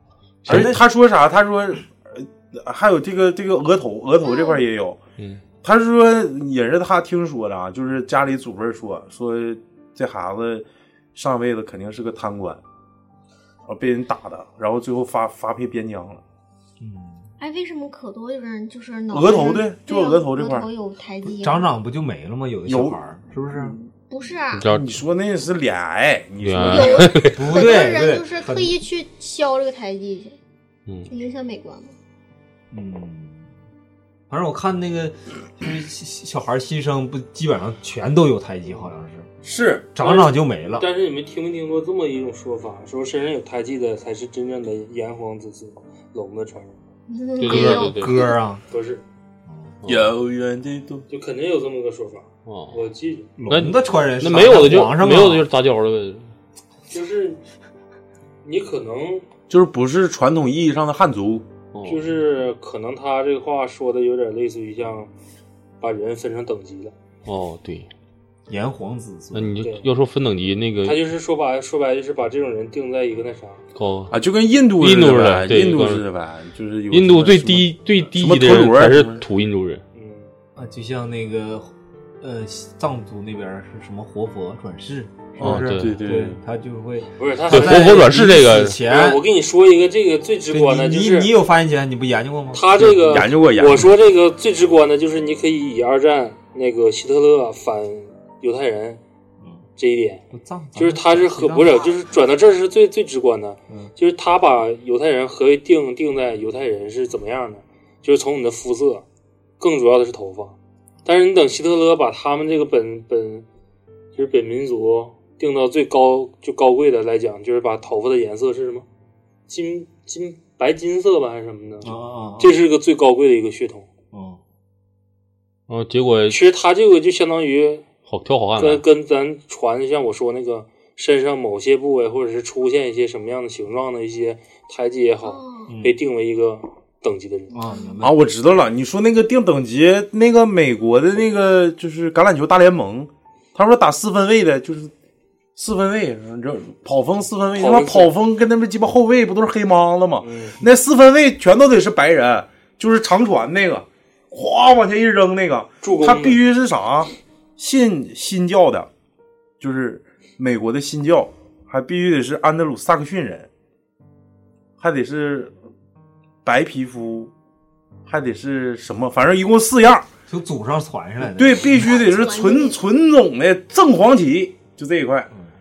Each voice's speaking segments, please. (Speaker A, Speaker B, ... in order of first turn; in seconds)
Speaker A: 0.4-0.8, 16.8-17.3, 21.2-23.8, 27.3-28.8, 32.7-33.5, 34.3-39.3, 39.9-40.9, 47.4-48.6, 49.5-49.8, 53.4-55.4, 68.5-69.6, 80.5-89.2, 90.5-93.2, 99.4-99.7, 100.3-101.9, 121.8-122.6, 124.1-124.4, 135.7-136.0, 137.5-138.2, 170.3-172.1
Speaker B: 0.5-0.8, 5.2-5.4, 24.5-24.9, 26.4-27.4, 47.4-48.3, 49.8-50.1, 52.5-52.8, 53.5-56.3, 61.7-62.1, 67.2-67.9, 69.3-71.0, 73.7-74.2, 74.8-76.0, 76.9-79.8, 85.4-86.0, 87.5-88.8, 125.7-126.4, 128.1-128.8
Speaker C: 0.5-5.0, 5.6-12.6, 13.7-16.2, 19.1-20.7, 22.6-23.0, 23.5-23.8, 24.6-27.2, 49.8-51.0, 59.5-61.5, 74.1-79.2, 85.4-86.4, 92.8-93.9, 138.0-144.9, 145.6-158.9, 159.6-163.5, 164.8-165.5, 166.4-167.3, 168.1-170.1, 171.2-175.3
Speaker D: 4.2-4.6, 17.4-21.7, 24.1-24.7, 26.6-30.4, 31.1-31.9, 47.1-48.4, 135.2-135.7, 137.6-138.0, 171.8-172.8
Speaker E: 39.4-46.8, 48.7-49.0, 51.1-53.3, 56.9-57.4, 58.4-59.2, 61.9-65.1, 65.8-66.9, 69.6-69.9, 70.8-73.6, 79.9-80.3, 87.2-91.3, 92.5-99.0, 99.8-100.2, 100.7-109.0, 109.6-113.4, 114.1-118.8, 119.5-123.9, 126.3-127.8, 128.6-137.5, 147.6-148.1, 150.2-150.6, 155.8-156.4